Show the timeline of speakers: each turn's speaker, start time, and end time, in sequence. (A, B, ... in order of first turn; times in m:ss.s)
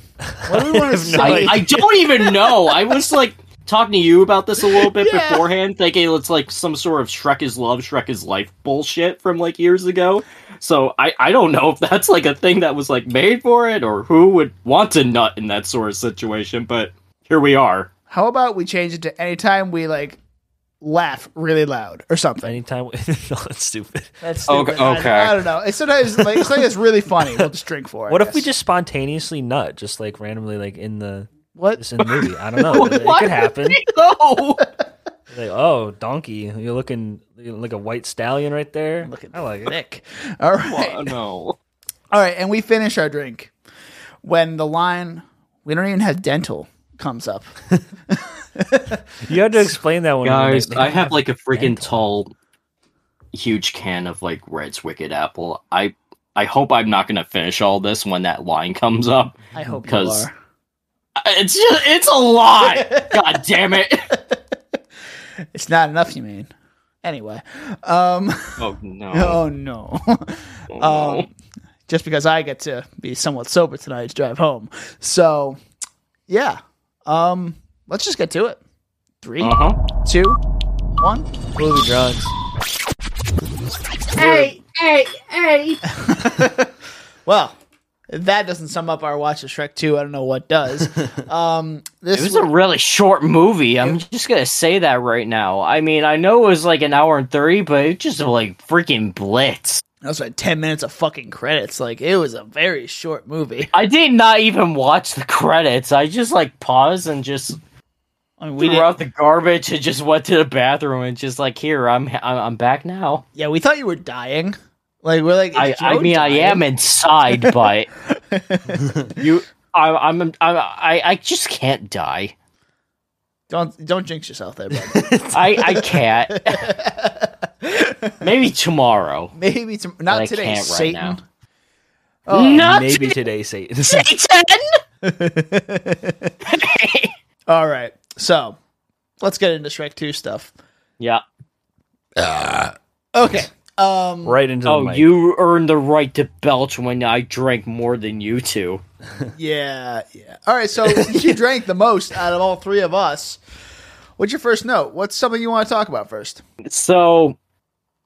0:00.3-0:01.7 A
0:00.4-0:02.8 B
0:01.2-0:17.9 C
0:04.6-0:05.5 B
0:18.1-0:20.2 B
0:20.8-0:22.6 B
0:22.4-0:24.2 A
0:24.2-0:28.5 B
0:24.5-0:25.4 C
0:26.2-0:26.6 A
0:27.2-0:27.5 A
0:28.1-0:33.8 A
0:31.6-0:31.8 B
0:32.6-0:34.6 C
0:32.7-0:33.1 B
0:35.3-0:39.8 A
0:39.0-0:41.2 B
0:40.7-0:41.6 C
0:42.1-0:43.5 B
0:44.2-0:47.5 B
0:48.1-0:49.3 B
0:49.2-0:52.0 A
0:50.2-0:52.3 C
0:53.3-1:00.3 C
0:59.5-1:00.3 B
1:01.2-1:04.1 C
1:02.6-1:03.4 B
1:04.1-1:04.4 B
1:05.5-1:06.5 B
1:07.0-1:11.3 B
1:08.6-1:09.4 C
1:10.7-1:11.3 C
1:11.9-1:15.6 B
1:16.3-1:18.6 B
1:19.2-1:20.4 B
1:19.4-1:19.8 C
1:21.0-1:22.3 B
1:24.2-1:24.6 B
1:24.2-1:25.8 C
1:25.9-1:27.6 B
1:28.1-1:32.5 B
1:32.1-1:39.8 C
1:40.0-1:43.7 B
1:43.7-1:47.6 C
1:48.4-1:48.9 B
1:48.6-1:53.2 C
1:53.4-1:56.6 B
1:55.6-1:57.9 C
1:58.1-1:59.0 B
1:58.8-1:59.1 A
1:59.2-2:02.3 C
2:03.5-2:08.3 B
2:04.7-2:05.5 A
2:05.3-2:06.7 C
2:08.2-2:09.3 C
2:09.3-2:11.2 B
2:10.1-2:11.2 C
2:12.3-2:12.8 B
2:12.3-2:13.2 C
2:12.5-2:14.1 A
2:13.9-2:14.7 C
2:15.0-2:16.3 B
2:16.4-2:17.1 C
2:17.5-2:18.6 B
2:19.2-2:20.5 B
2:22.3-2:22.7 A
2:23.1-2:24.4 B
2:24.2-2:25.1 A
2:24.7-2:28.8 C
2:29.4-2:33.4 B
2:34.2-2:36.4 B
2:36.6-2:37.4 C